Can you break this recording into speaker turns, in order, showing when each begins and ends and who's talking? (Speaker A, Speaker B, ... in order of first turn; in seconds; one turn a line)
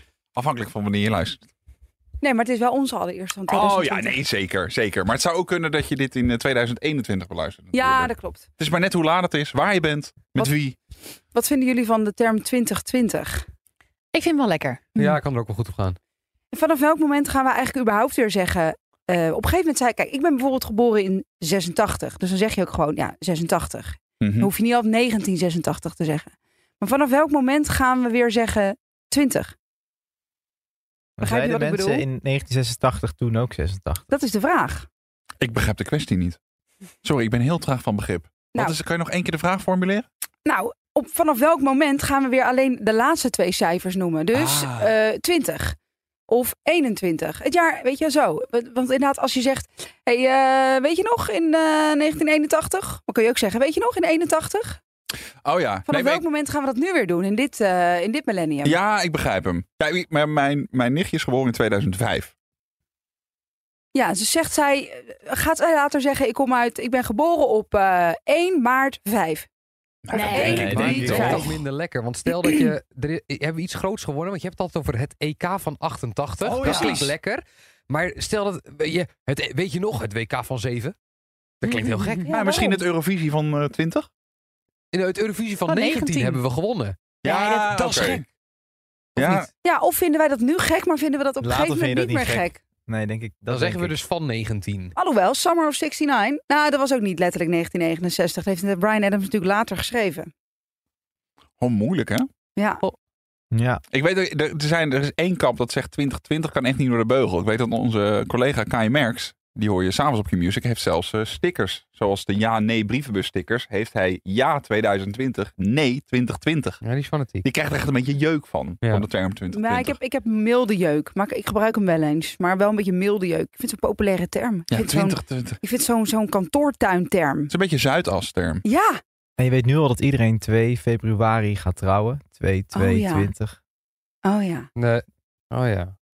Speaker A: 0.3-1.4
Speaker B: 2.2-4.2
Speaker A: 3.5-10.8
Speaker B: 7.7-8.4
Speaker B: 11.3-13.4
Speaker C: 14.1-14.8
Speaker D: 14.9-16.0
Speaker B: 16.5-29.5
Speaker A: 24.2-24.5
Speaker E: 31.2-34.0
Speaker B: 31.2-32.0
Speaker B: 34.1-34.9
Speaker A: 35.4-36.4
Speaker A: 37.0-40.1
Speaker B: 40.5-45.8
Speaker A: 44.3-44.9
Speaker B: 46.3-54.8
Speaker A: 55.4-56.2
Speaker B: 55.9-58.8
Speaker A: 58.6-62.3
Speaker B: 63.9-69.5
Speaker A: 70.1-71.6
Speaker C: 70.1-70.7
Speaker B: 70.1-71.6
Speaker D: 70.4-81.0
Speaker E: 70.5-71.4
Speaker A: 76.4-77.1
Speaker C: 76.6-77.0
Speaker D: 81.6-82.3
Speaker C: 81.6-82.3
Speaker B: 82.2-82.8
Speaker A: 82.3-84.1
Speaker D: 84.9-87.0
Speaker C: 85.7-86.4
Speaker A: 87.2-88.2
Speaker C: 87.2-88.2
Speaker A: 89.2-89.5
Speaker B: 89.6-92.6
Speaker E: 91.4-94.0
Speaker D: 93.5-95.0
Speaker B: 95.0-100.3
Speaker A: 101.6-102.3
Speaker B: 102.6-102.8
Speaker E: 103.5-103.8
Speaker A: 103.9-116.8
Speaker D: 116.8-117.5
Speaker A: 117.4-120.0
Speaker B: 119.5-127.5
Speaker A: 124.7-125.6
Speaker A: 127.5-128.7
Speaker B: 128.6-129.0
Speaker E: 129.4-133.6
Speaker B: 132.7-133.3
Speaker B: 134.2-134.7
Speaker D: 134.8-135.9